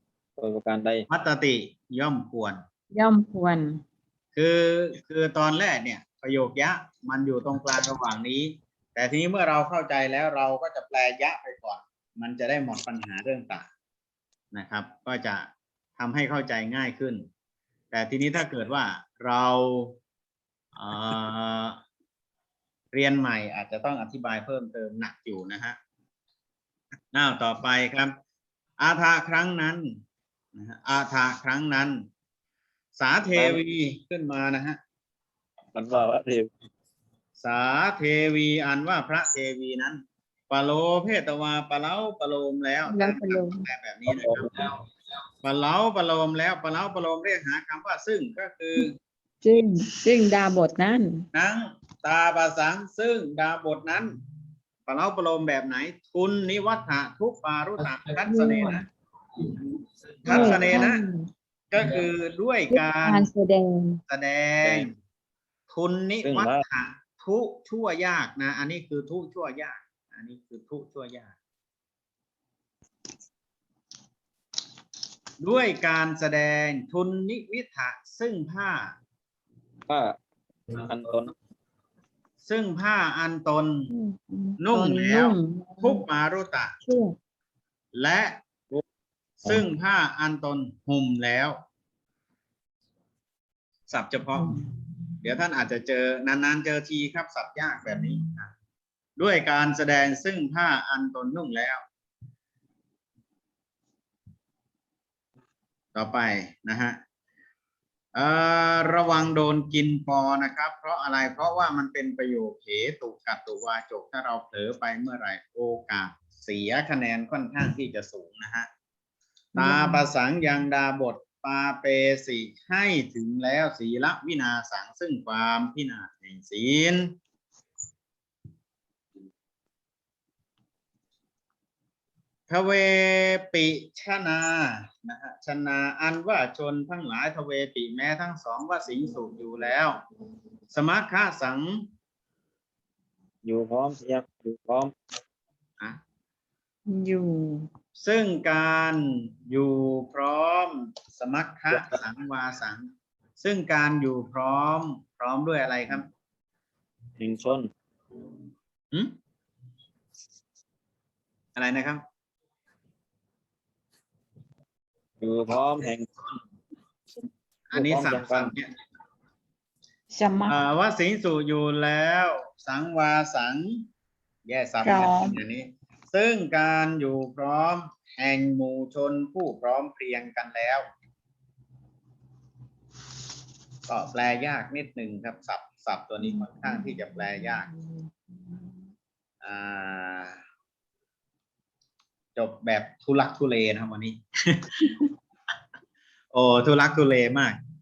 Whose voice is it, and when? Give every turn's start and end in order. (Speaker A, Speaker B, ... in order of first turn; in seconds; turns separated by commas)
Speaker A: 0.4-1.1, Speaker B: 1.1-2.6, Speaker C: 2.9-3.8, Speaker B: 4.3-13.7, Speaker B: 14.5-17.2, Speaker B: 17.9-20.0, Speaker B: 20.8-21.8, Speaker B: 22.9-25.8, Speaker B: 27.1-28.1, Speaker B: 28.8-29.9, Speaker B: 30.5-32.0, Speaker B: 33.0-34.8, Speaker A: 33.3-33.6, Speaker A: 35.7-36.5, Speaker B: 37.4-44.5, Speaker C: 42.9-43.6, Speaker A: 44.1-44.7, Speaker B: 45.4-48.9, Speaker C: 49.4-51.2, Speaker B: 51.3-54.1, Speaker B: 54.9-58.8, Speaker C: 58.2-58.8, Speaker B: 60.2-61.0, Speaker C: 60.3-61.3, Speaker A: 60.3-60.6, Speaker B: 61.7-63.3, Speaker C: 62.7-64.0, Speaker B: 64.1-64.9, Speaker A: 64.6-64.9, Speaker B: 65.7-71.3, Speaker A: 66.2-66.6, Speaker B: 75.4-78.9, Speaker A: 79.9-80.2, Speaker A: 80.7-81.3, Speaker B: 82.4-83.8, Speaker C: 83.9-86.0, Speaker B: 84.6-86.7, Speaker C: 86.8-87.2, Speaker B: 87.9-88.4, Speaker B: 89.4-91.6, Speaker B: 93.9-94.6, Speaker C: 94.3-94.6, Speaker B: 95.2-98.5, Speaker B: 99.2-101.8, Speaker B: 105.9-107.0, Speaker B: 108.1-118.7, Speaker C: 119.5-120.0, Speaker B: 119.5-127.1, Speaker B: 132.5-140.0, Speaker B: 140.7-141.8, Speaker A: 143.4-144.9, Speaker C: 146.9-147.7, Speaker B: 148.0-156.1, Speaker A: 157.2-157.7, Speaker B: 161.6-162.0, Speaker A: 165.2-166.2, Speaker B: 167.7-168.7, Speaker A: 167.7-168.5, Speaker C: 170.1-170.6, Speaker B: 170.5-173.8, Speaker B: 174.4-180.8, Speaker C: 174.8-175.4, Speaker B: 183.9-187.7, Speaker C: 186.2-188.8, Speaker B: 189.4-190.4, Speaker B: 192.3-194.7, Speaker B: 196.3-197.6